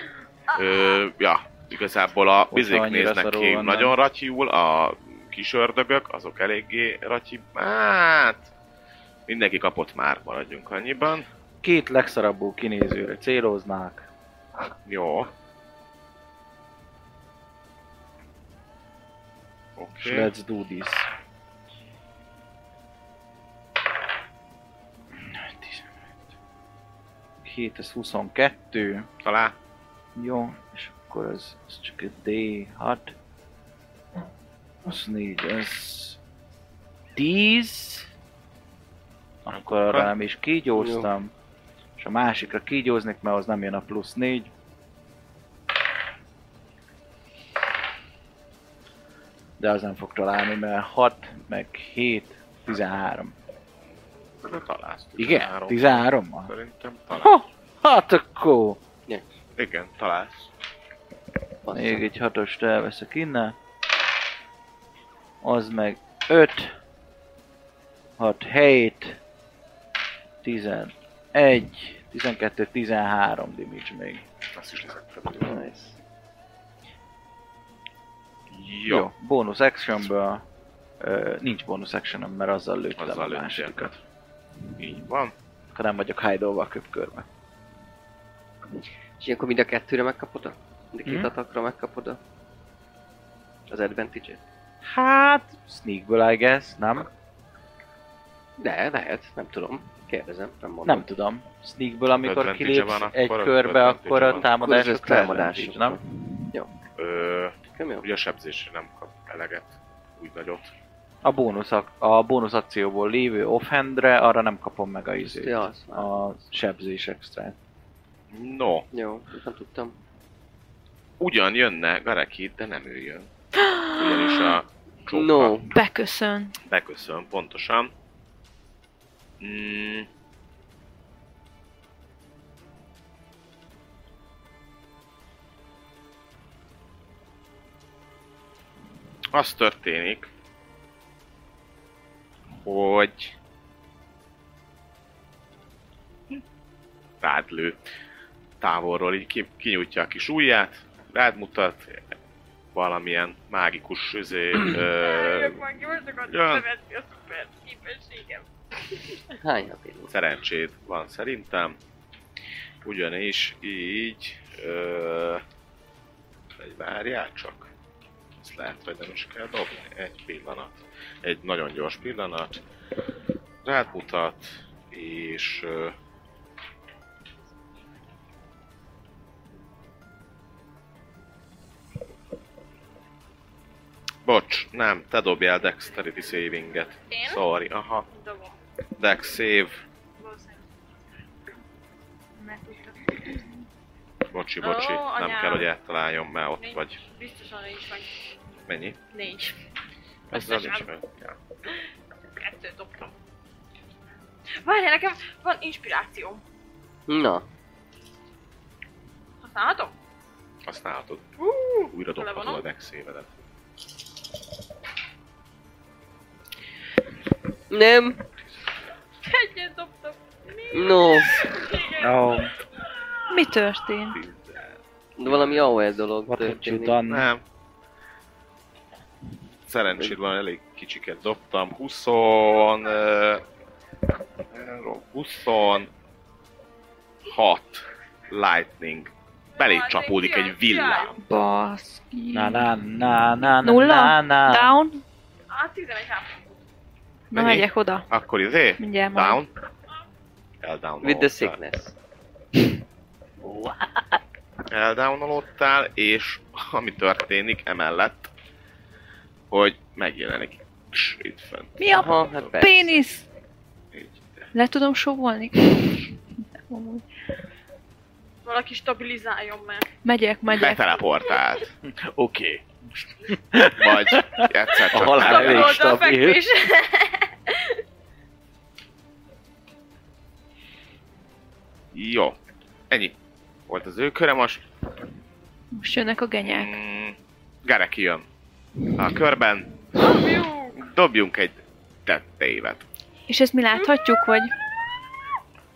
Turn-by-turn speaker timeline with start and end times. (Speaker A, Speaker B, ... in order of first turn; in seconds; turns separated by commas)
Speaker A: 0.5-8.5, Speaker B: 2.5-3.9, Speaker A: 9.3-11.3, Speaker B: 11.6-14.1, Speaker A: 14.8-15.3, Speaker A: 19.8-20.3, Speaker B: 20.0-21.1, Speaker B: 25.3-25.9, Speaker B: 27.4-29.1, Speaker A: 29.2-29.5, Speaker B: 30.1-33.1, Speaker B: 34.8-36.2, Speaker B: 37.1-38.1, Speaker B: 39.4-41.3, Speaker A: 39.5-40.1, Speaker C: 40.8-41.1, Speaker B: 42.0-44.5, Speaker B: 49.6-53.3, Speaker A: 54.4-57.3, Speaker B: 55.2-56.5, Speaker B: 57.1-58.8, Speaker A: 59.5-60.5, Speaker C: 61.6-62.0, Speaker B: 61.7-63.5, Speaker B: 65.4-66.7, Speaker B: 68.2-69.2, Speaker B: 70.4-74.2, Speaker A: 74.5-75.5, Speaker C: 75.3-76.0, Speaker A: 78.5-79.1, Speaker B: 78.9-80.4, Speaker B: 81.0-83.9, Speaker A: 83.0-84.0, Speaker A: 84.8-85.3, Speaker B: 85.7-87.2, Speaker C: 89.2-92.2, Speaker B: 91.0-91.3, Speaker C: 93.7-94.4, Speaker B: 94.8-97.1, Speaker C: 98.6-101.0, Speaker B: 100.8-106.0, Speaker A: 102.2-104.5, Speaker C: 104.6-106.0, Speaker A: 107.0-110.7, Speaker C: 107.8-108.0, Speaker B: 111.2-117.5, Speaker C: 115.2-116.1, Speaker A: 118.3-118.9, Speaker C: 118.9-120.0, Speaker A: 121.2-123.3, Speaker D: 123.6-124.1, Speaker A: 123.9-125.6, Speaker C: 125.1-125.7, Speaker D: 125.7-126.5, Speaker A: 126.7-127.9, Speaker A: 129.4-130.1, Speaker A: 139.3-140.3, Speaker A: 142.5-143.3, Speaker A: 147.2-147.8, Speaker A: 148.6-152.0, Speaker A: 152.7-155.6, Speaker E: 155.0-159.2, Speaker A: 156.3-156.6, Speaker C: 159.4-160.1, Speaker A: 160.1-161.8, Speaker A: 162.8-165.4, Speaker A: 166.6-167.7, Speaker A: 168.4-172.6, Speaker A: 173.6-175.9, Speaker A: 184.2-188.1, Speaker E: 187.1-187.4, Speaker E: 188.1-188.6, Speaker A: 189.0-189.8, Speaker D: 192.4-193.4, Speaker A: 194.3-197.0, Speaker E: 194.6-195.7, Speaker E: 196.6-198.2, Speaker A: 198.7-199.0, Speaker E: 199.1-199.6, Speaker A: 200.3-201.3, Speaker E: 200.3-200.9, Speaker E: 202.4-203.1, Speaker E: 204.6-206.4, Speaker C: 207.1-207.4, Speaker E: 209.4-209.9, Speaker A: 210.7-211.3, Speaker E: 211.4-212.6, Speaker A: 211.9-213.3, Speaker C: 217.7-218.2, Speaker E: 219.2-222.2, Speaker C: 220.7-221.3, Speaker B: 222.0-222.5, Speaker D: 223.3-224.2, Speaker A: 224.1-224.7, Speaker C: 225.2-227.0, Speaker A: 225.2-225.7, Speaker B: 226.3-227.3, Speaker A: 227.1-227.4, Speaker A: 229.7-233.4, Speaker A: 234.5-235.9, Speaker A: 237.2-241.2, Speaker E: 239.6-241.2, Speaker D: 241.2-242.7, Speaker B: 242.3-244.7, Speaker D: 243.6-245.0, Speaker E: 245.5-246.6, Speaker D: 247.3-248.1, Speaker A: 247.3-249.5, Speaker D: 248.8-249.4, Speaker A: 250.6-251.6, Speaker C: 251.0-251.9, Speaker B: 253.4-254.0, Speaker A: 254.7-258.3, Speaker A: 259.5-262.5, Speaker D: 261.8-263.2, Speaker C: 261.9-263.0, Speaker A: 263.9-264.5, Speaker D: 264.5-266.1, Speaker D: 266.6-267.0, Speaker E: 268.4-269.9, Speaker D: 270.0-270.8, Speaker A: 270.6-271.7, Speaker B: 271.9-276.4, Speaker A: 273.8-275.8, Speaker E: 275.1-277.8, Speaker A: 281.9-282.4, Speaker A: 282.9-283.1, Speaker A: 283.7-284.6, Speaker D: 285.7-286.7, Speaker A: 286.4-288.2, Speaker A: 288.9-289.8, Speaker E: 289.9-290.8, Speaker A: 290.8-292.8, Speaker D: 293.3-294.5, Speaker E: 293.8-294.2